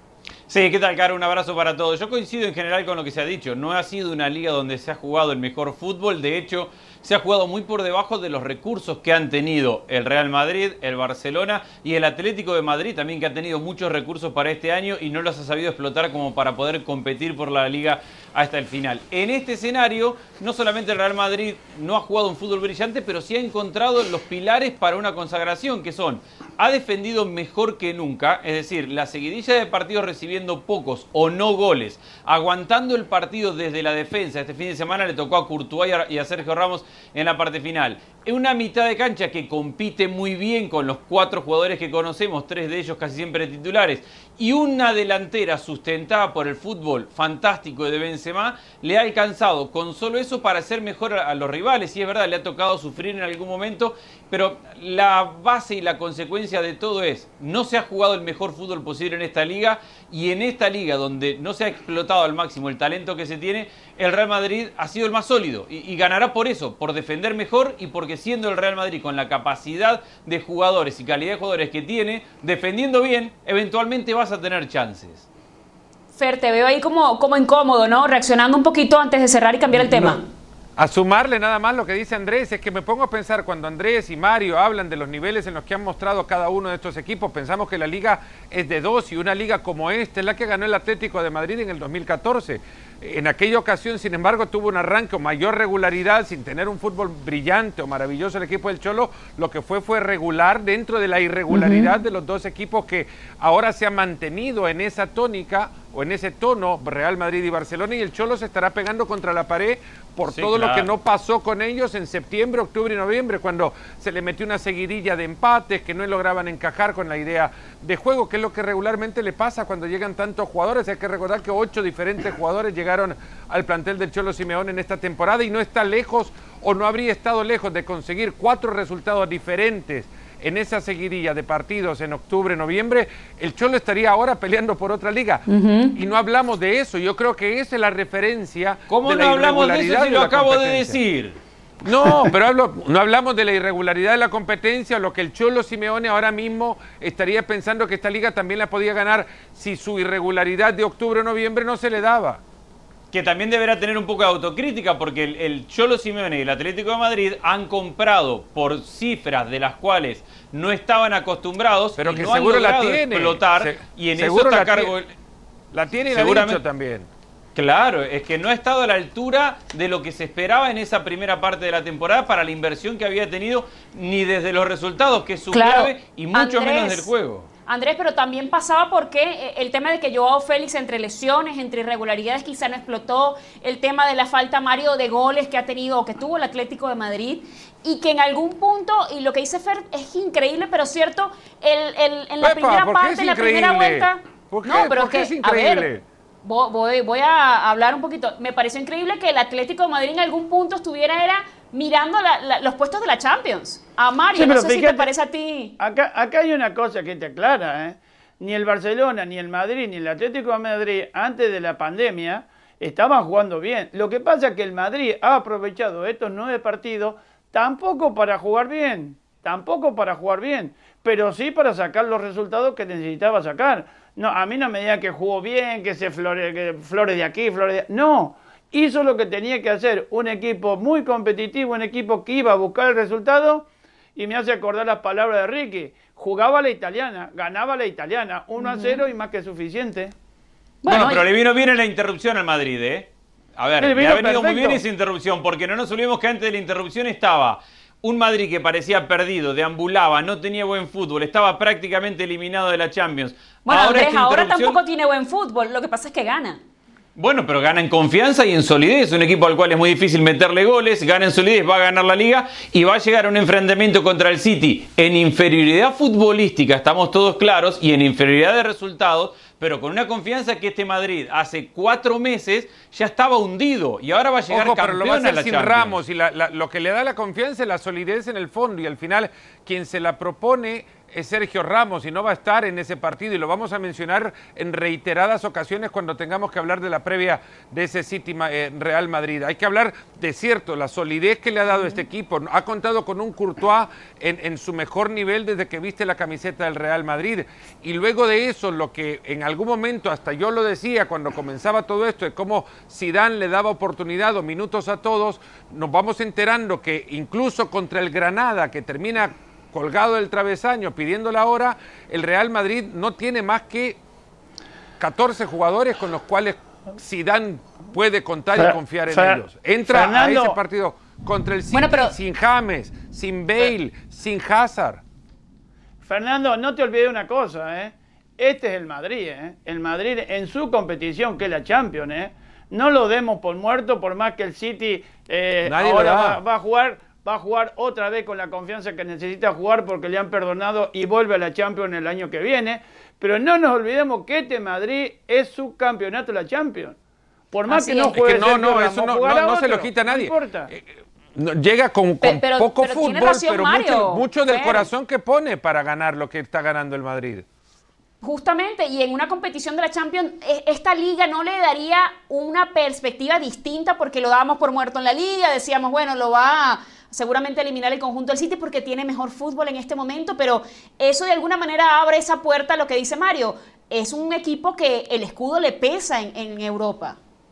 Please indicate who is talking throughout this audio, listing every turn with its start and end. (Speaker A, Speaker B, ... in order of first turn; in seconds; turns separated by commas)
Speaker A: 0.5-75.3, Speaker B: 76.2-80.2, Speaker C: 79.7-80.2, Speaker C: 80.8-141.0, Speaker B: 101.5-102.0, Speaker A: 110.3-110.9, Speaker B: 135.5-135.9, Speaker A: 138.9-141.4, Speaker C: 141.8-152.4, Speaker A: 153.1-165.1, Speaker C: 162.0-165.0, Speaker C: 165.7-167.1, Speaker A: 166.1-166.6, Speaker A: 167.5-177.5, Speaker B: 175.5-177.1, Speaker B: 177.7-195.9, Speaker C: 192.4-196.0, Speaker B: 196.4-205.8, Speaker D: 204.3-205.1, Speaker D: 205.8-240.1, Speaker B: 238.6-239.0, Speaker B: 240.8-241.2, Speaker A: 240.9-254.8, Speaker D: 243.8-244.8, Speaker B: 253.7-256.6, Speaker A: 257.1-276.0, Speaker C: 274.5-314.0, Speaker C: 315.0-325.0, Speaker D: 318.6-320.6, Speaker B: 321.7-322.1, Speaker D: 326.0-347.0, Speaker C: 335.6-336.4, Speaker D: 347.5-350.7, Speaker B: 347.7-348.2, Speaker C: 348.1-357.4, Speaker B: 352.2-354.9, Speaker B: 358.2-377.2